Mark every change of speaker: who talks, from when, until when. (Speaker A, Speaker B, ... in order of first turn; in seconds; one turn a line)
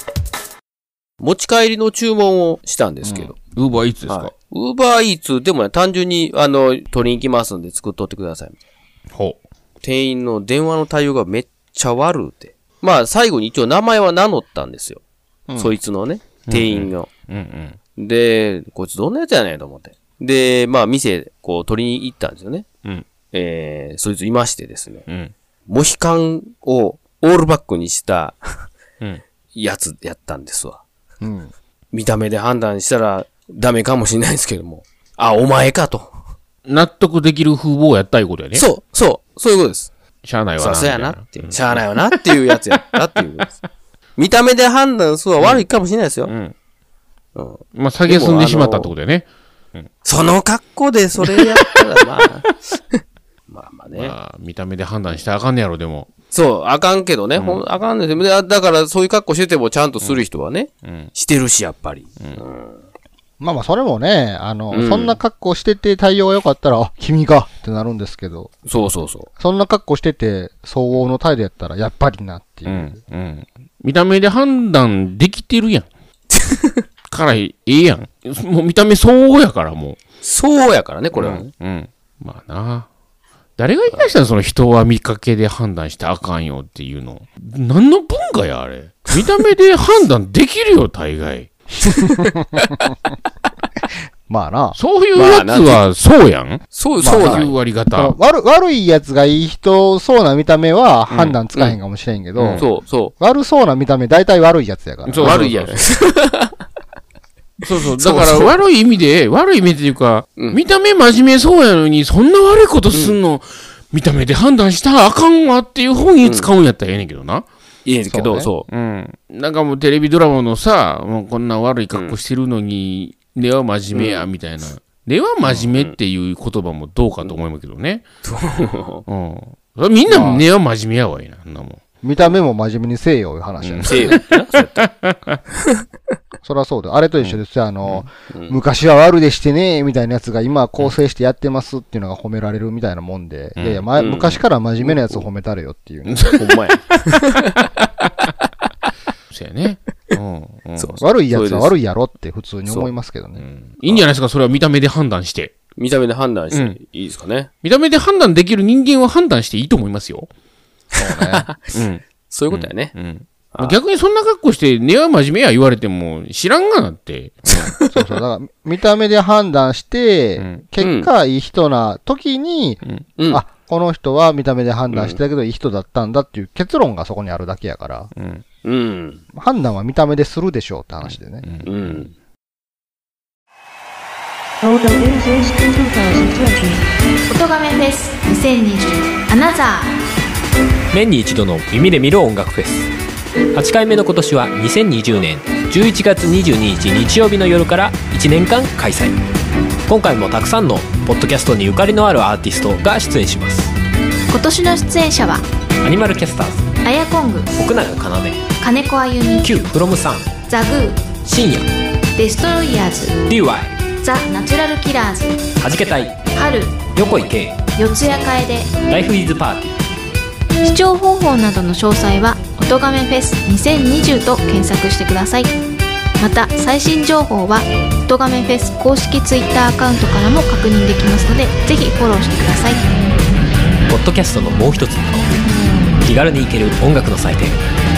Speaker A: 1.2-3.4
Speaker B: 3.0-3.3
Speaker C: 3.5-4.3
Speaker A: 4.1-8.6
Speaker C: 9.1-9.4
Speaker A: 9.8-15.0
Speaker A: 15.6-17.1
Speaker C: 16.4-17.8
Speaker A: 17.9-22.7
Speaker A: 23.3-25.1
Speaker C: 25.1-25.3
Speaker A: 25.7-28.6
Speaker A: 29.5-30.8
Speaker B: 31.2-31.5
Speaker A: 31.9-36.1
Speaker C: 36.6-38.6
Speaker A: 38.5-39.9
Speaker C: 40.2-42.1
Speaker A: 40.6-43.6
Speaker A: 44.2-46.3
Speaker C: 45.4-45.6
Speaker C: 46.2-46.5
Speaker A: 47.4-48.9
Speaker C: 47.7-49.9
Speaker A: 50.0-54.1
Speaker C: 53.9-56.1
Speaker A: 56.3-62.8
Speaker C: 57.4-57.6
Speaker C: 60.8-61.1
Speaker B: 63.4-68.5
Speaker A: 64.7-65.2
Speaker A: 68.7-69.3
Speaker B: 69.4-73.0
Speaker C: 72.7-75.9
Speaker A: 76.3-76.7
Speaker C: 77.1-80.0
Speaker A: 80.2-81.5
Speaker C: 81.1-82.9
Speaker C: 83.6-91.5
Speaker B: 91.8-92.7
Speaker B: 94.3-94.8
Speaker C: 94.7-96.6
Speaker A: 95.1-95.9
Speaker A: 96.7-97.6
Speaker B: 97.0-102.7
Speaker C: 97.2-98.2
Speaker C: 101.1-101.4
Speaker C: 102.3-102.6
Speaker A: 102.6-103.1
Speaker B: 103.2-105.5
Speaker C: 105.0-105.8
Speaker A: 105.2-106.5
Speaker C: 107.7-117.5
Speaker B: 108.0-108.4
Speaker A: 108.1-108.5
Speaker A: 112.9-113.2
Speaker A: 116.2-116.5
Speaker A: 117.8-118.7
Speaker B: 118.1-118.5
Speaker C: 118.7-128.0
Speaker A: 121.9-122.2
Speaker A: 123.9-124.3
Speaker A: 125.4-126.0
Speaker A: 128.2-129.0
Speaker C: 129.1-131.8
Speaker B: 130.1-130.4
Speaker B: 132.0-134.2
Speaker C: 133.6-134.3
Speaker A: 133.8-134.9
Speaker C: 134.9-135.4
Speaker B: 136.4-146.3
Speaker A: 138.3-138.6
Speaker C: 143.6-143.9
Speaker A: 143.9-145.2
Speaker C: 146.1-146.4
Speaker A: 146.4-147.5
Speaker C: 149.3-151.0
Speaker A: 150.8-151.7
Speaker B: 151.0-153.4
Speaker C: 153.4-155.6
Speaker A: 155.8-157.5
Speaker C: 156.5-156.8
Speaker C: 157.6-160.3
Speaker B: 161.0-161.5
Speaker A: 161.2-161.7
Speaker C: 161.7-167.8
Speaker A: 162.2-162.9
Speaker A: 163.5-163.8
Speaker B: 167.8-178.1
Speaker C: 170.4-170.7
Speaker A: 170.8-171.1
Speaker A: 174.9-175.2
Speaker C: 178.1-178.4
Speaker A: 178.6-179.2
Speaker B: 179.3-181.4
Speaker C: 181.0-182.1
Speaker A: 181.6-182.1
Speaker D: 187.3-189.9
Speaker E: 190.9-192.9
Speaker E: 193.5-199.2
Speaker E: 199.9-203.7
Speaker D: 204.3-205.4
Speaker E: 205.8-206.7
Speaker D: 206.8-207.6
Speaker E: 207.5-208.4
Speaker D: 208.6-209.5
Speaker E: 209.4-210.3
Speaker D: 210.5-211.1
Speaker E: 211.2-211.7
Speaker D: 212.2-213.2
Speaker E: 213.3-213.8
Speaker D: 214.0-215.5
Speaker E: 215.6-216.2
Speaker D: 216.3-216.9
Speaker E: 216.9-217.6
Speaker D: 217.8-218.8
Speaker E: 218.9-219.8
Speaker D: 220.6-225.5
Speaker D: 226.2-232.8
Speaker E: 233.9-235.3
Speaker E: 235.9-237.6